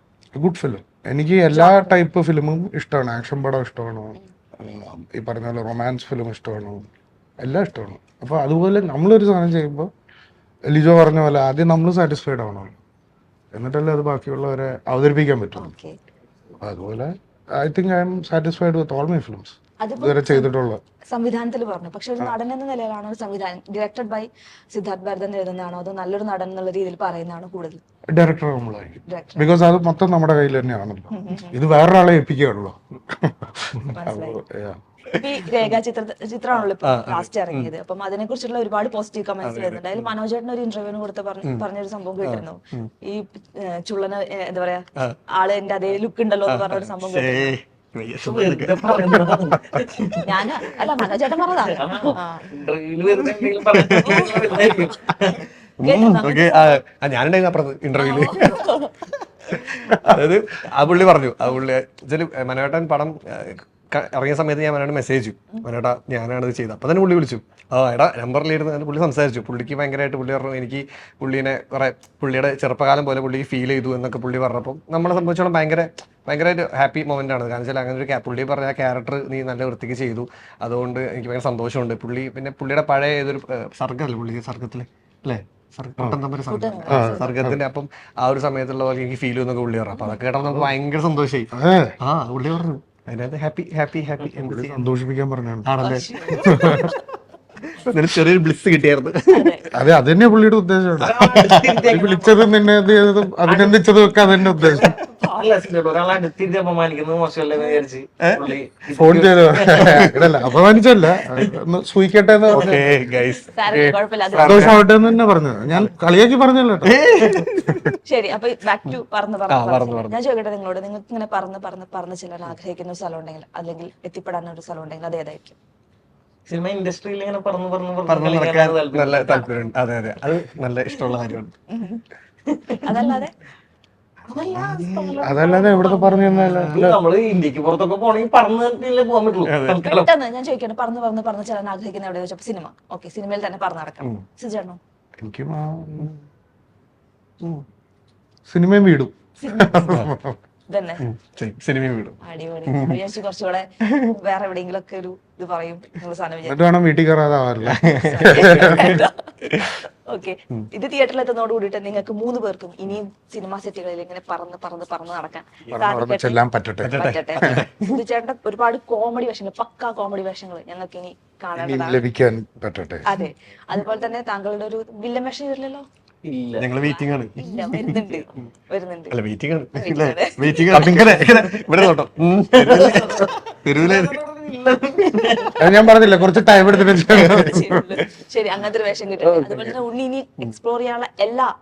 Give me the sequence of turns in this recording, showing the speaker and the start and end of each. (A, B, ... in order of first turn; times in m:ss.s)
0:00.4-0:06.9 A
0:01.5-0:02.0 B
0:07.4-0:09.9 A
0:10.7-0:12.8 A
0:13.5-0:15.7 A
0:15.6-0:16.0 B
0:16.6-0:20.8 A
0:19.8-0:20.5 B
0:21.1-0:27.8 B
0:28.1-0:34.8 A
0:29.1-0:29.5 B
0:31.1-0:31.6 B
0:33.9-0:34.4 B
0:35.1-0:47.5 B
0:36.6-0:37.7 C
0:39.4-0:40.1 C
0:42.2-0:42.9 C
0:46.5-0:51.0 C
0:48.2-0:50.2 D
0:50.2-0:52.5 B
0:51.7-0:55.5 D
0:53.2-0:54.9 C
0:53.8-0:54.6 B
0:55.8-1:34.9 C
0:55.8-0:56.8 B
0:58.0-0:59.0 B
1:26.5-1:27.3 B
1:26.9-1:27.6 A
1:31.5-1:32.0 A
1:34.4-1:35.8 A
1:35.6-1:37.0 C
1:35.8-1:37.0 B
1:36.4-1:36.8 A
1:37.7-1:39.6 C
1:39.3-1:39.7 B
1:39.7-1:44.9 A
1:41.0-1:42.5 D
1:41.4-1:41.8 C
1:43.5-1:45.5 B
1:45.4-1:50.1 D
1:47.6-1:47.8 B
1:48.2-1:48.5 C
1:48.9-1:52.8 A
1:49.1-1:50.8 C
1:52.5-1:55.9 C
1:52.5-1:52.8 D
1:53.4-1:54.8 B
1:54.4-1:57.0 A
1:56.8-1:58.0 C
1:57.2-1:57.4 D
1:58.1-2:05.6 B
1:59.5-2:00.2 C
2:06.5-2:09.5 D
2:08.1-2:11.5 C
2:11.7-2:12.0 B
2:12.5-2:13.1 D
2:12.8-2:13.3 B
2:14.3-2:20.1 D
2:14.4-2:15.2 C
2:15.2-2:17.0 A
2:16.3-2:16.6 C
2:19.4-2:19.8 C
2:19.8-2:24.8 B
2:24.0-2:24.2 C
2:25.2-2:26.1 A
2:28.5-2:30.4 A
2:29.4-2:29.8 B
2:29.8-2:30.1 C
2:30.7-2:31.0 B
2:31.0-2:33.0 C
2:32.2-2:36.6 B
2:33.8-2:34.2 C
2:36.5-2:39.0 A
2:37.6-2:39.8 C
2:38.0-2:52.0 B
2:45.7-2:47.6 A
2:46.8-2:48.0 C
2:51.6-2:53.1 A
2:53.0-2:55.9 B
2:56.2-2:56.7 D
2:56.6-2:58.5 C
2:56.8-2:59.2 B
2:59.1-3:04.2 C
2:59.8-3:01.0 B
3:00.7-3:01.3 A
3:01.3-3:01.8 D
3:02.5-3:05.8 D
3:05.1-3:05.5 C
3:05.4-3:05.8 B
3:05.6-3:07.8 A
3:06.7-3:11.5 B
3:07.0-3:08.1 C
3:09.2-3:09.8 C